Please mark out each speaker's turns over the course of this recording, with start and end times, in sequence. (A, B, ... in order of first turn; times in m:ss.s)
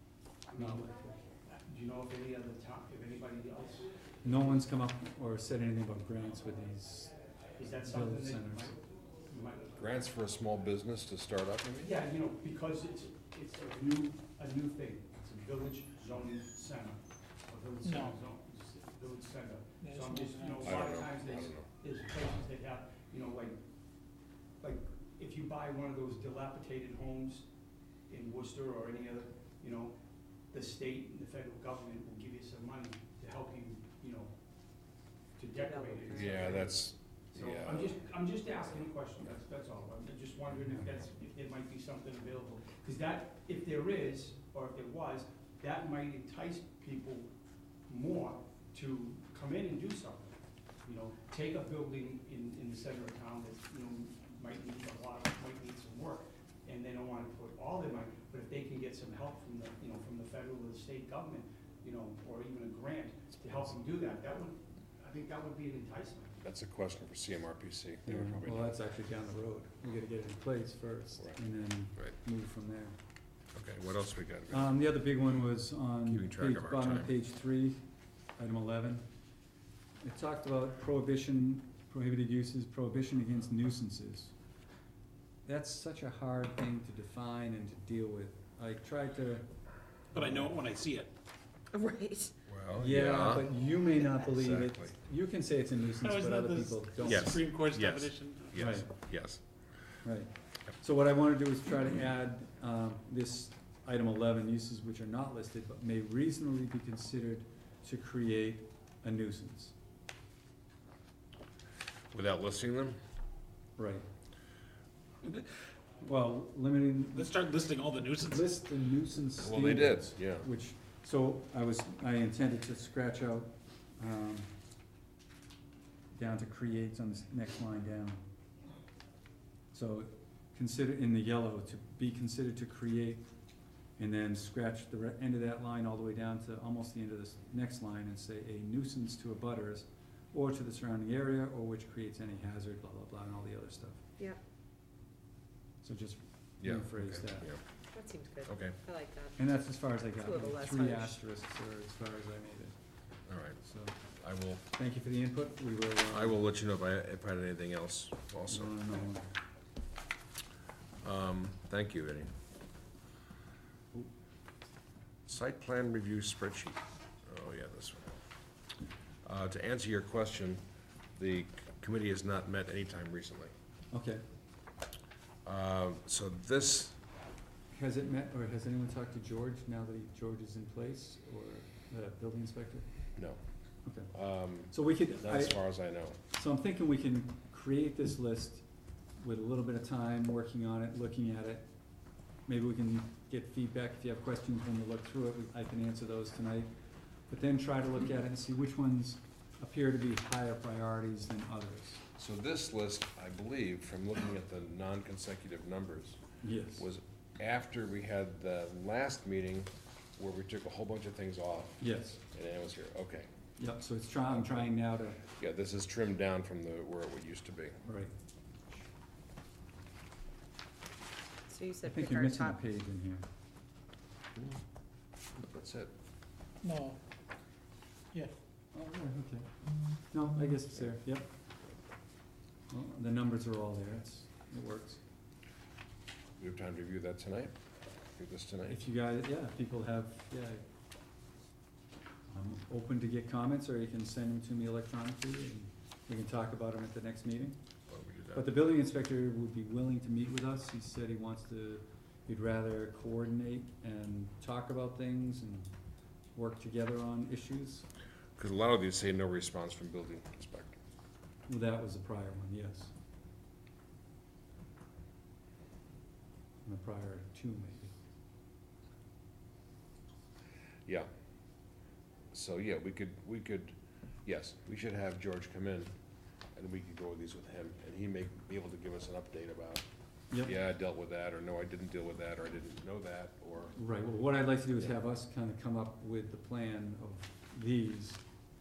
0:00.5-0:03.9 A
0:00.6-0:01.0 B
0:04.2-0:07.1 B
0:07.6-0:10.0 A
0:07.8-0:08.7 B
0:09.8-0:11.9 C
0:11.8-0:23.6 A
0:17.8-0:18.1 D
0:19.8-0:20.7 D
0:20.6-0:21.7 C
0:24.6-0:27.5 A
0:28.1-0:29.9 A
0:30.5-0:34.3 A
0:35.4-0:47.3 A
0:35.6-0:36.7 E
0:36.1-0:37.9 C
0:47.9-1:06.4 A
1:06.4-1:08.7 C
1:08.0-1:13.0 B
1:13.5-1:14.7 C
1:14.5-1:17.8 B
1:16.0-1:17.1 C
1:18.4-1:19.0 B
1:20.0-1:24.3 B
1:25.4-1:29.5 B
1:30.1-1:31.1 D
1:31.7-1:32.3 E
1:32.5-1:33.5 C
1:32.8-1:37.4 B
1:34.4-1:34.9 C
1:35.9-1:38.7 D
1:37.0-1:39.4 C
1:38.6-1:38.9 B
1:40.0-1:49.7 B
1:52.1-1:53.0 C
1:53.8-1:54.0 B
1:56.0-1:57.3 B
1:57.1-1:58.5 D
1:58.2-2:04.5 B
1:59.4-2:00.5 C
2:06.1-2:08.2 B
2:09.7-2:13.3 B
2:14.0-2:24.0 B
2:25.8-2:27.5 B
2:26.6-2:27.6 C
2:27.9-2:31.2 E
2:28.4-2:28.8 C
2:29.4-2:32.7 B
2:33.3-2:33.6 C
2:33.6-2:33.9 B
2:34.2-2:34.6 C
2:34.7-2:36.4 B
2:36.1-2:38.8 C
2:38.5-2:39.3 B
2:41.0-2:42.3 C
2:45.3-2:48.1 C
2:49.2-2:50.6 C
2:51.2-2:53.5 C
2:53.9-2:54.2 B
2:55.4-2:57.0 C
2:57.7-3:02.9 B
3:03.8-3:04.1 B
3:04.1-3:06.2 C
3:04.7-3:05.6 B
3:06.3-3:08.6 B
3:09.2-3:11.6 B
3:12.5-3:16.7 B
3:17.3-3:22.0 B
3:22.2-3:26.2 C
3:26.4-3:26.9 B
3:26.8-3:33.3 C
3:31.8-3:32.2 B
3:33.6-3:35.2 B
3:35.3-3:37.8 C
3:37.8-3:38.1 B
3:41.5-3:42.6 E
3:41.8-3:43.2 B
3:45.4-3:45.9 C
3:46.6-3:47.0 D
3:48.7-3:49.4 B
3:50.1-3:51.3 B
3:52.7-3:55.0 B
3:56.4-3:57.5 C
3:58.2-3:58.8 C
3:58.6-4:00.6 B
4:02.3-4:07.6 B
4:07.9-4:08.5 C
4:08.3-4:15.7 B
4:16.4-4:17.9 B
4:18.4-4:20.8 C
4:21.5-4:22.9 B
4:26.6-4:27.9 B
4:32.3-4:35.9 C
4:36.5-4:39.8 C
4:40.3-4:40.6 B
4:40.4-4:43.8 C
4:43.8-4:48.2 B